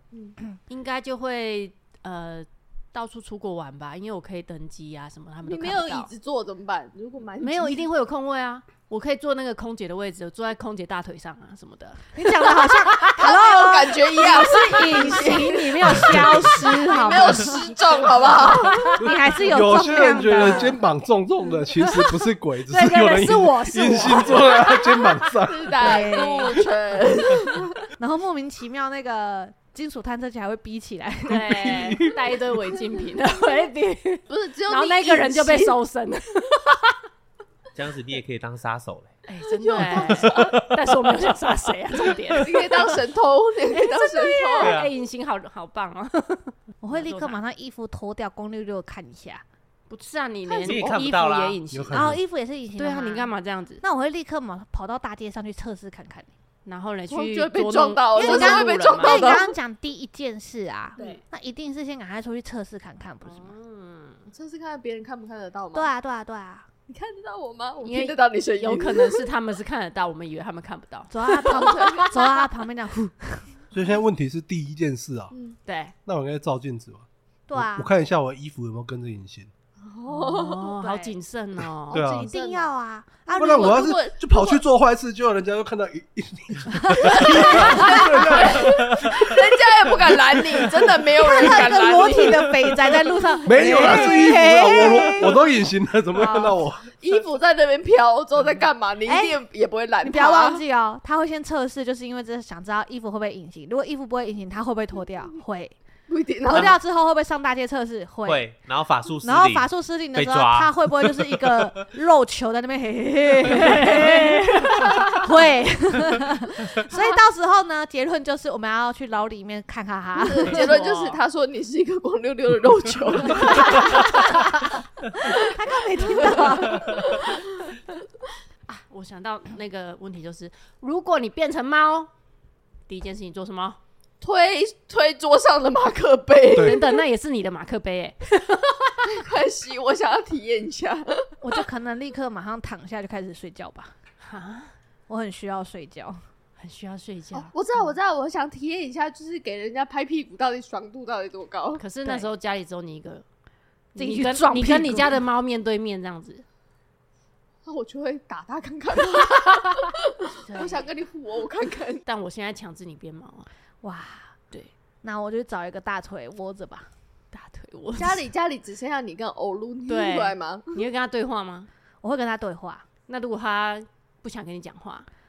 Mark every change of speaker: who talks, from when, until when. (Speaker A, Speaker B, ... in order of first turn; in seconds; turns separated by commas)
Speaker A: 0.1-0.4, Speaker B: 0.7-6.1, Speaker A: 5.4-7.9, Speaker B: 7.4-13.1, Speaker C: 12.1-17.7, Speaker A: 13.1-18.9, Speaker B: 15.1-16.6, Speaker B: 18.6-19.1, Speaker C: 19.0-20.8, Speaker D: 19.1-25.7, Speaker B: 20.4-20.7, Speaker B: 21.9-22.1, Speaker B: 22.6-25.4, Speaker A: 25.4-27.7, Speaker C: 25.8-26.6, Speaker C: 28.0-32.0, Speaker B: 31.2-37.0, Speaker A: 34.3-35.8, Speaker E: 37.7-39.1, Speaker B: 39.3-43.0, Speaker A: 39.5-40.7, Speaker E: 40.2-40.7, Speaker A: 42.3-44.8, Speaker B: 43.7-47.4, Speaker E: 44.6-44.9, Speaker C: 46.8-49.4, Speaker B: 49.9-52.2, Speaker A: 50.5-51.0, Speaker E: 50.6-51.6, Speaker D: 51.7-52.2, Speaker C: 51.9-56.3, Speaker B: 52.8-53.8, Speaker B: 56.6-59.5, Speaker A: 57.1-59.5, Speaker C: 58.1-63.5, Speaker B: 61.0-61.2, Speaker B: 63.2-64.3, Speaker A: 64.3-65.9, Speaker C: 65.7-66.7, Speaker A: 66.9-69.3, Speaker B: 67.8-72.4, Speaker C: 71.1-73.6, Speaker A: 71.5-72.1, Speaker D: 73.7-75.3, Speaker A: 75.3-75.6, Speaker B: 75.7-76.0, Speaker D: 76.0-79.5, Speaker C: 77.5-77.9, Speaker A: 79.8-80.7, Speaker B: 80.1-82.1, Speaker C: 80.5-81.2, Speaker A: 81.9-82.7, Speaker E: 81.9-82.3, Speaker C: 82.0-83.9, Speaker A: 83.3-84.6, Speaker D: 83.4-89.4, Speaker C: 86.8-88.5, Speaker A: 87.0-92.9, Speaker B: 87.3-87.8, Speaker D: 90.1-90.8, Speaker C: 91.2-95.5, Speaker D: 93.4-97.0, Speaker C: 96.1-96.6, Speaker A: 97.0-100.6, Speaker C: 99.0-99.4, Speaker C: 100.0-105.8, Speaker A: 106.1-106.7, Speaker C: 106.4-108.5, Speaker E: 108.2-111.7, Speaker C: 109.2-120.8, Speaker B: 113.4-115.3, Speaker A: 120.2-124.3, Speaker B: 120.4-121.2, Speaker B: 123.3-124.0, Speaker C: 125.2-127.2, Speaker A: 126.0-127.4, Speaker B: 128.7-132.1, Speaker B: 132.9-133.8, Speaker A: 134.2-137.0, Speaker B: 136.5-139.1, Speaker A: 139.0-141.3, Speaker C: 141.4-143.9, Speaker B: 144.2-144.7, Speaker C: 145.1-146.2, Speaker B: 146.6-147.5, Speaker A: 147.3-151.8, Speaker B: 151.8-153.2, Speaker C: 152.0-152.3, Speaker B: 153.9-156.4, Speaker C: 153.9-155.2, Speaker A: 157.7-162.0, Speaker B: 160.5-160.8, Speaker B: 162.1-163.5, Speaker C: 163.8-164.4, Speaker C: 165.0-166.9, Speaker B: 167.3-168.2, Speaker A: 167.9-170.8, Speaker B: 169.9-171.7, Speaker C: 172.0-172.8, Speaker B: 173.1-175.1